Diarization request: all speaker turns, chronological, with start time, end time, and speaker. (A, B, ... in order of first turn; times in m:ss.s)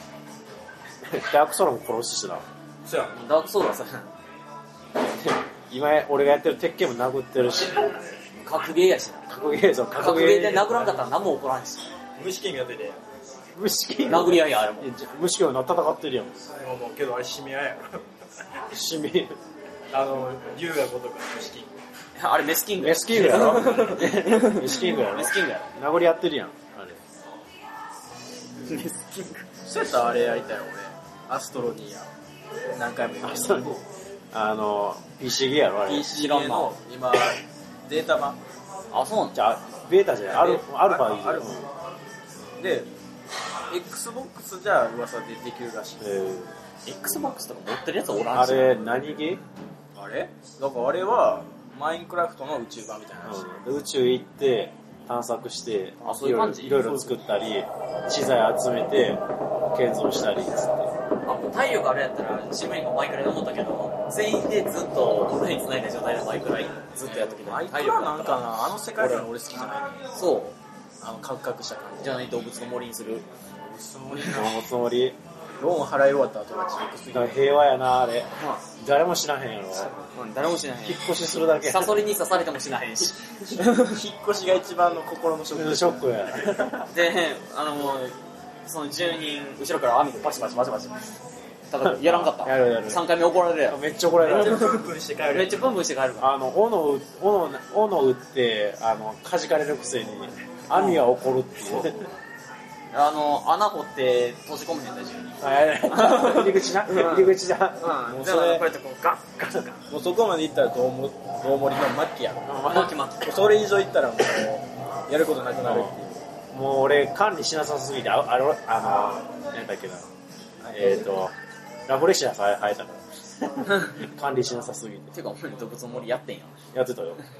0:01.0-0:02.4 A
0:02.8-0:03.2 B
0:03.1-0:04.1 C
0:05.1-0:07.9 A
0:08.4-0:09.3 C
0:09.3-0:10.9 A
0:09.9-0:11.9 C
0:12.2-0:13.0 B
0:13.5-0:16.4 A
0:14.0-0:14.9 C
0:16.6-0:18.0 B
0:18.7-0:19.4 A
0:19.9-0:21.7 B
0:22.2-0:25.7 C
0:22.8-0:27.0 A
0:28.6-0:29.4 C
0:29.6-0:32.1 B
0:32.7-0:33.8 B
0:33.2-0:33.8 A
0:34.3-0:36.1 A
0:35.8-0:38.4 B
0:36.1-0:36.7 C
0:38.9-0:39.4 C
0:39.3-0:41.7 A
0:40.3-0:41.5 B
0:42.6-0:42.9 B
0:43.7-0:46.2 B
0:46.0-0:46.6 A
0:46.8-0:48.8 C
0:48.3-0:49.4 A
0:49.9-0:53.4 B
0:53.2-1:00.9 A
0:56.0-0:57.1 C
1:01.2-1:08.5 C
1:07.0-1:10.1 B
1:09.0-1:09.2 A
1:10.1-1:10.6 C
1:11.0-1:12.3 B
1:12.0-1:13.3 C
1:13.6-1:14.6 B
1:14.2-1:15.2 A
1:15.6-1:17.6 B
1:17.1-1:19.9 A
1:18.4-1:18.6 C
1:20.0-1:23.9 C
1:20.8-1:22.0 A
1:23.6-1:26.8 B
1:25.5-1:26.9 A
1:26.9-1:31.1 C
1:31.7-1:36.3 C
1:31.8-1:33.0 A
1:33.7-1:34.8 A
1:34.2-1:35.7 B
1:36.2-1:42.1 A
1:40.7-1:41.0 C
1:42.9-1:49.8 C
1:45.4-1:47.9 A
1:48.0-1:48.6 B
1:49.9-1:52.6 B
1:52.5-1:52.9 A
1:52.6-1:53.5 C
1:53.2-1:56.2 B
1:55.6-1:56.0 A
1:56.5-2:00.1 A
2:00.6-2:01.2 B
2:00.7-2:01.3 A
2:01.9-2:05.1 A
2:05.1-2:06.6 C
2:06.7-2:07.2 A